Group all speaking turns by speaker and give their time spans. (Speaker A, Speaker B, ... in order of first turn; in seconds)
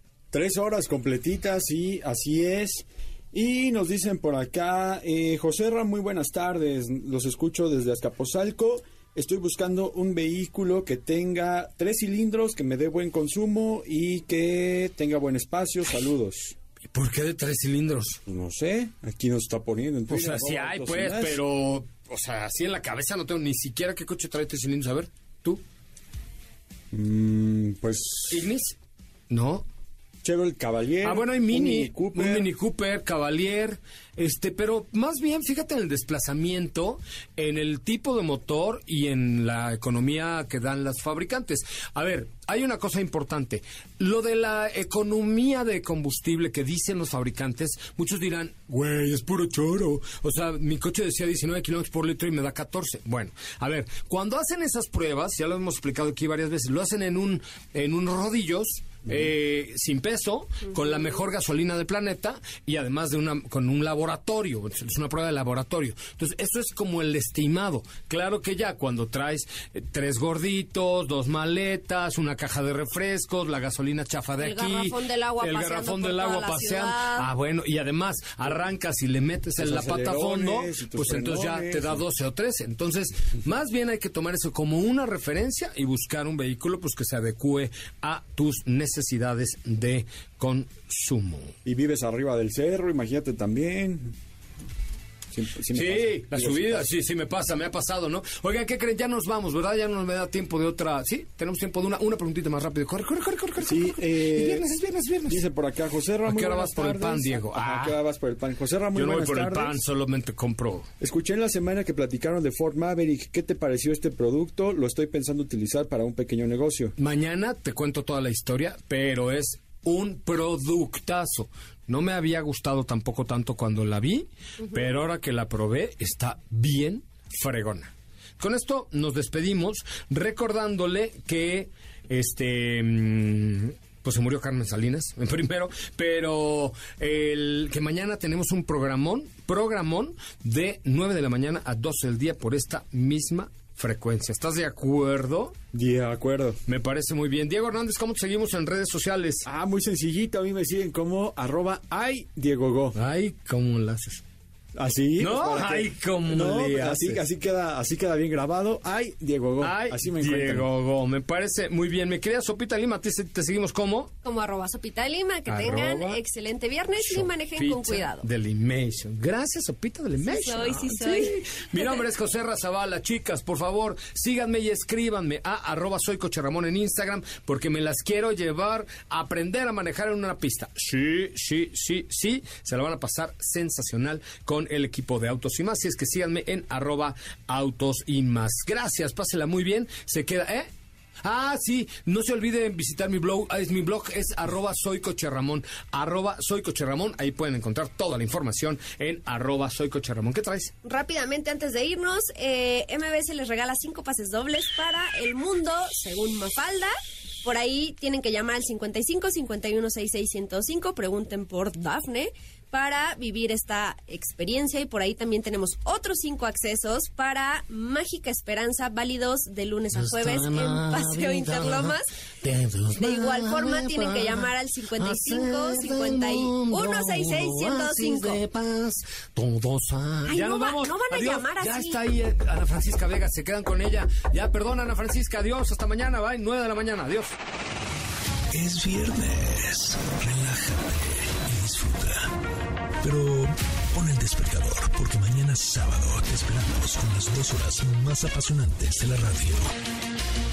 Speaker A: 0.3-16.6, 18.3-21.4, 26.9-28.5, 30.2-32.5, 79.6-82.0, 91.7-94.2, 95.3-96.9, 103.6-109.8, 111.0-117.0, 145.7-146.6, 149.4-153.0, 154.8-160.7
Speaker B: 16.9-18.2, 20.1-25.6, 28.3-28.8, 29.3-29.7, 31.0-91.5, 95.7-105.4, 106.3-108.0, 109.0-110.9, 117.0-145.6, 146.7-149.5, 152.9-154.2, 155.2-157.2, 159.6-164.1, 165.5-166.2, 167.0-190.7, 191.2-200.7, 219.9-237.3
Speaker C: 60.7-61.1, 74.4-77.3, 164.2-168.3, 170.2-172.0, 200.8-222.1, 223.0-228.4, 230.3-232.0
Speaker D: 238.5-242.3, 243.0-249.7